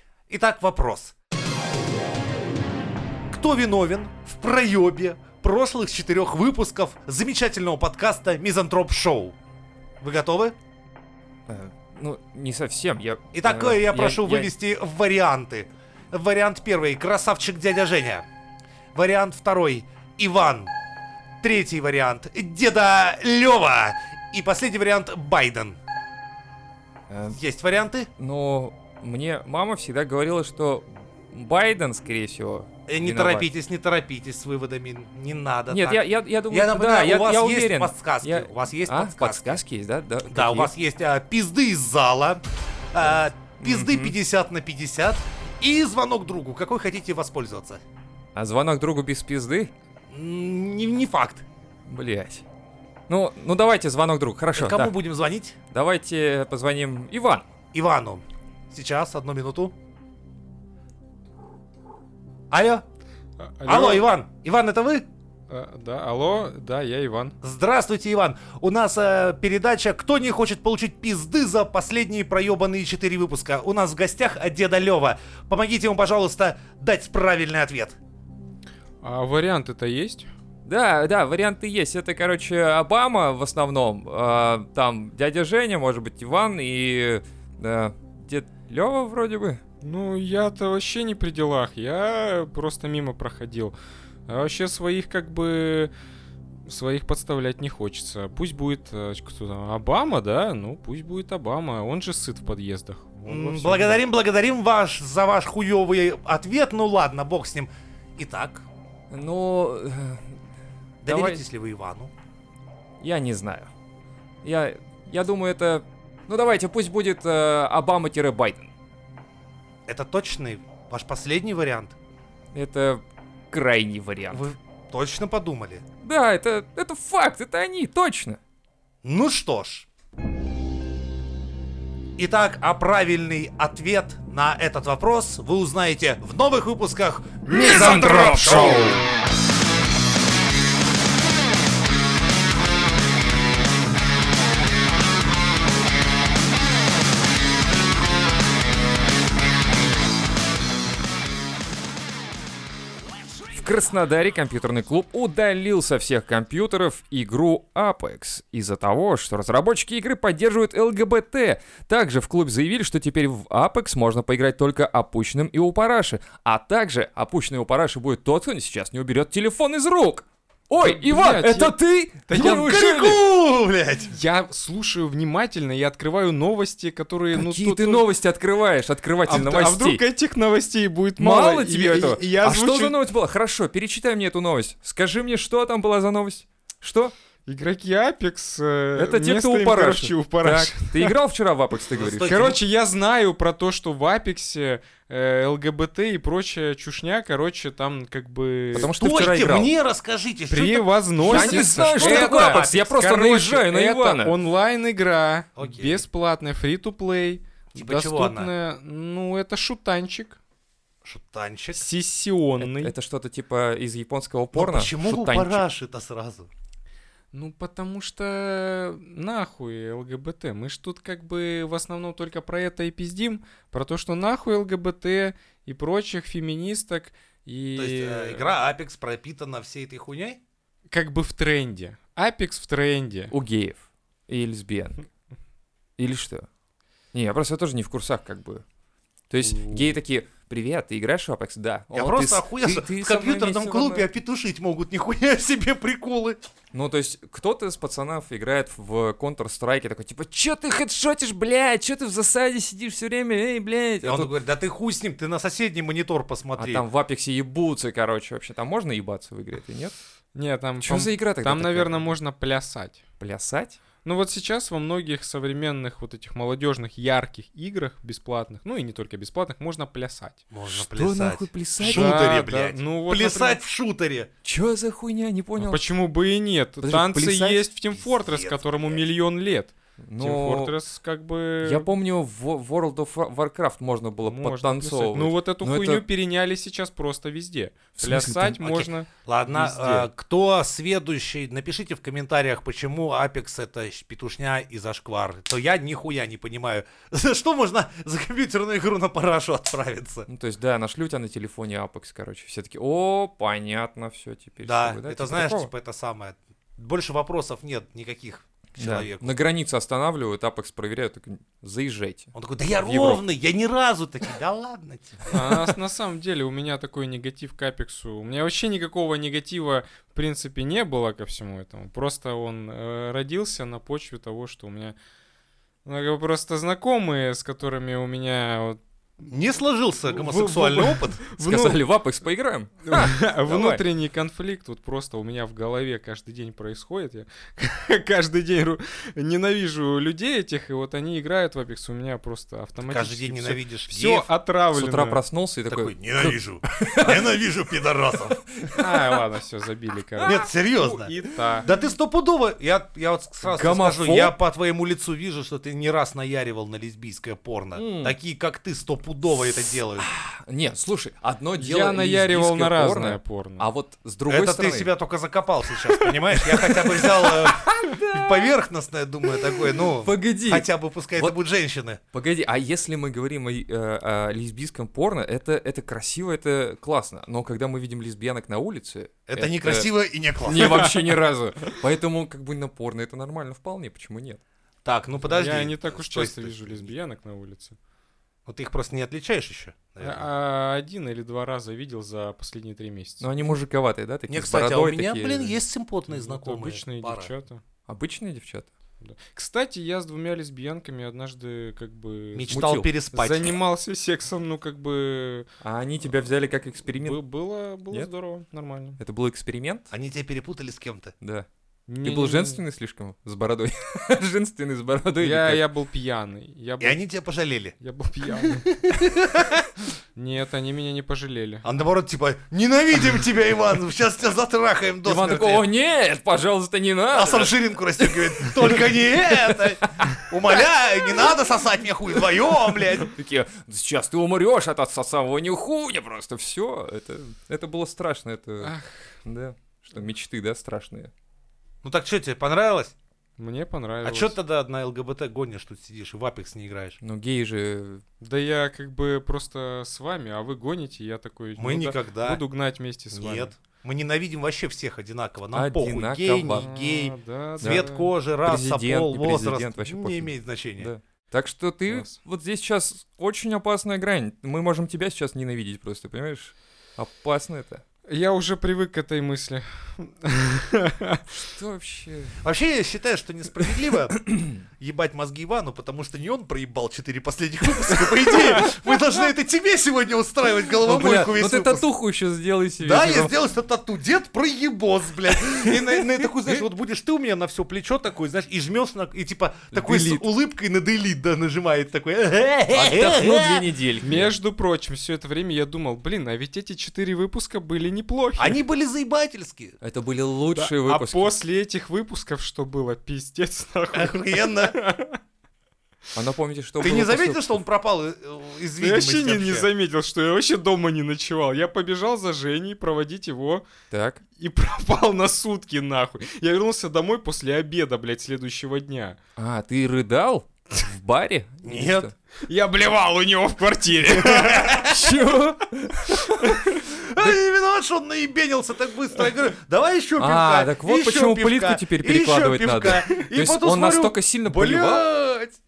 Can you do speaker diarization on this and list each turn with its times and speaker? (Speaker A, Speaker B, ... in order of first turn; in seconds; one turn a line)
Speaker A: 0.3-1.1
Speaker A: 3.3-9.3
Speaker A: 10.0-10.5
Speaker B: 11.5-14.5
Speaker A: 13.3-18.2
Speaker A: 18.9-20.7
Speaker A: 21.4-25.8
Speaker B: 27.1-27.4
Speaker A: 27.3-28.1
Speaker B: 28.2-33.5
Speaker A: 32.9-39.6
Speaker B: 35.7-40.7
Speaker A: 40.3-47.8
Speaker B: 43.0-44.1
Speaker B: 48.3-49.7
Speaker A: 50.1-51.4
Speaker B: 51.9-52.4
Speaker B: 53.1-55.0
Speaker A: 54.5-55.6
Speaker B: 55.7-57.5
Speaker A: 57.7-59.7
Speaker A: 62.5-62.8
Speaker C: 63.4-64.1
Speaker A: 63.7-65.0
Speaker C: 65.5-67.3
Speaker A: 67.4-78.0
Speaker C: 79.0-80.3
Speaker B: 80.6-89.6
Speaker C: 89.8-93.7
Speaker C: 94.3-95.9
Speaker C: 96.7-104.0
Speaker A: 103.2-108.7
Speaker B: 109.1-110.4
Speaker B: 111.0-111.4
Speaker A: 111.0-112.1
Speaker B: 113.0-113.7
Speaker B: 114.4-118.7
Speaker A: 119.9-122.0
Speaker B: 122.5-124.4
Speaker A: 124.3-125.8
Speaker B: 126.0-128.4
Speaker A: 129.0-129.8
Speaker A: 132.2-139.0
Speaker B: 137.5-139.0
Speaker B: 153.5-173.2
Speaker C: 170.8-171.8
Speaker C: 172.3-173.2
Speaker A: 172.4-174.1
Speaker C: 174.1-178.1
Speaker B: 177.3-180.0
Speaker C: 179.2-183.0
Speaker B: 181.2-187.1
Speaker C: 187.5-191.2
Speaker B: 188.9-192.3
Speaker A: 191.9-192.6
Speaker C: 192.2-198.9
Speaker B: 198.7-199.7
Speaker A: 199.0-203.3
Speaker C: 200.5-210.4
Speaker B: 201.2-204.3
Speaker A: 205.6-206.0
Speaker A: 207.7-208.5
Speaker A: 211.0-211.9
Speaker C: 211.7-212.9
Speaker B: 212.6-215.6
Speaker A: 214.5-216.5
Speaker C: 217.3-228.5
Speaker A: 227.8-230.4
Speaker C: 230.9-233.3
Speaker B: 233.3-235.0
Speaker B: 236.0-236.5
Speaker B: 237.1-238.6
Speaker B: 239.3-244.1
Speaker C: 239.4-239.9
Speaker A: 241.9-246.4
Speaker B: 246.7-254.3
Speaker A: 254.0-256.8
Speaker B: 256.6-259.9
Speaker C: 260.3-263.0
Speaker B: 260.8-262.0
Speaker B: 263.2-263.8
Speaker C: 264.0-270.4
Speaker A: 270.5-274.3
Speaker B: 270.7-272.2
Speaker C: 271.8-273.6
Speaker B: 274.4-275.9
Speaker C: 275.6-281.9
Speaker B: 276.8-277.7
Speaker A: 277.9-279.0
Speaker B: 280.0-280.7
Speaker B: 281.6-286.0
Speaker C: 284.2-290.1
Speaker B: 288.0-288.6
Speaker A: 288.6-300.3
Speaker B: 300.3-305.7
Speaker A: 304.6-309.4
Speaker B: 308.8-313.2
Speaker A: 312.3-315.5
Speaker C: 315.3-324.9
Speaker C: 325.8-328.8
Speaker A: 329.3-331.2
Speaker C: 330.1-331.8
Speaker B: 331.4-333.8
Speaker C: 332.8-345.2
Speaker A: 342.8-344.3
Speaker B: 344.7-347.3
Speaker A: 345.7-348.7
Speaker B: 348.6-348.9
Speaker C: 348.7-351.7
Speaker B: 350.2-351.1
Speaker A: 350.2-360.1
Speaker B: 353.4-354.4
Speaker B: 357.7-358.1
Speaker B: 360.0-364.9
Speaker C: 361.6-363.7
Speaker A: 364.3-372.0
Speaker B: 366.4-368.5
Speaker B: 369.3-371.4
Speaker B: 372.1-379.9
Speaker A: 379.3-381.0
Speaker B: 380.4-384.4
Speaker A: 384.8-386.9
Speaker C: 385.2-387.8
Speaker A: 388.5-390.3
Speaker C: 390.0-393.3
Speaker B: 393.2-395.6
Speaker A: 394.3-397.3
Speaker C: 396.1-397.6
Speaker B: 397.9-398.7
Speaker C: 399.0-402.6
Speaker A: 402.3-403.5
Speaker B: 402.5-402.9
Speaker C: 403.1-405.5
Speaker B: 405.6-407.2
Speaker C: 406.9-409.0
Speaker B: 409.0-409.9
Speaker A: 409.9-411.1
Speaker B: 411.2-411.5
Speaker C: 411.9-412.6
Speaker B: 412.0-415.6
Speaker C: 415.2-417.0
Speaker A: 416.8-417.8
Speaker C: 417.8-418.7
Speaker A: 418.4-419.7
Speaker C: 420.1-421.6
Speaker A: 421.6-425.6
Speaker B: 425.0-430.6
Speaker A: 427.1-433.1
Speaker B: 433.1-441.1
Speaker C: 438.6-439.1
Speaker A: 441.8-442.9
Speaker C: 443.4-444.4
Speaker A: 444.0-447.0
Speaker B: 447.0-448.0
Speaker C: 448.2-453.5
Speaker A: 451.6-452.4
Speaker A: 453.1-460.9
Speaker B: 455.5-456.6
Speaker C: 456.5-458.1
Speaker B: 458.4-467.8
Speaker C: 461.9-462.2
Speaker C: 468.1-471.3
Speaker B: 471.5-472.4
Speaker A: 472.4-481.9
Speaker B: 474.2-474.6
Speaker B: 480.8-483.3
Speaker A: 482.8-493.6
Speaker B: 485.4-486.6
Speaker B: 489.7-490.2
Speaker B: 492.7-494.3
Speaker C: 494.0-498.6
Speaker A: 498.4-499.8
Speaker B: 499.8-501.3
Speaker C: 500.5-505.2
Speaker A: 503.9-504.8
Speaker B: 506.1-507.5
Speaker A: 506.8-509.7
Speaker C: 508.8-513.6
Speaker B: 513.9-514.2
Speaker C: 514.4-519.2
Speaker B: 519.4-522.1
Speaker A: 521.6-522.1
Speaker C: 522.5-525.5
Speaker A: 524.2-525.0
Speaker B: 524.8-526.6
Speaker C: 526.0-526.8
Speaker A: 526.8-535.6
Speaker B: 530.2-535.1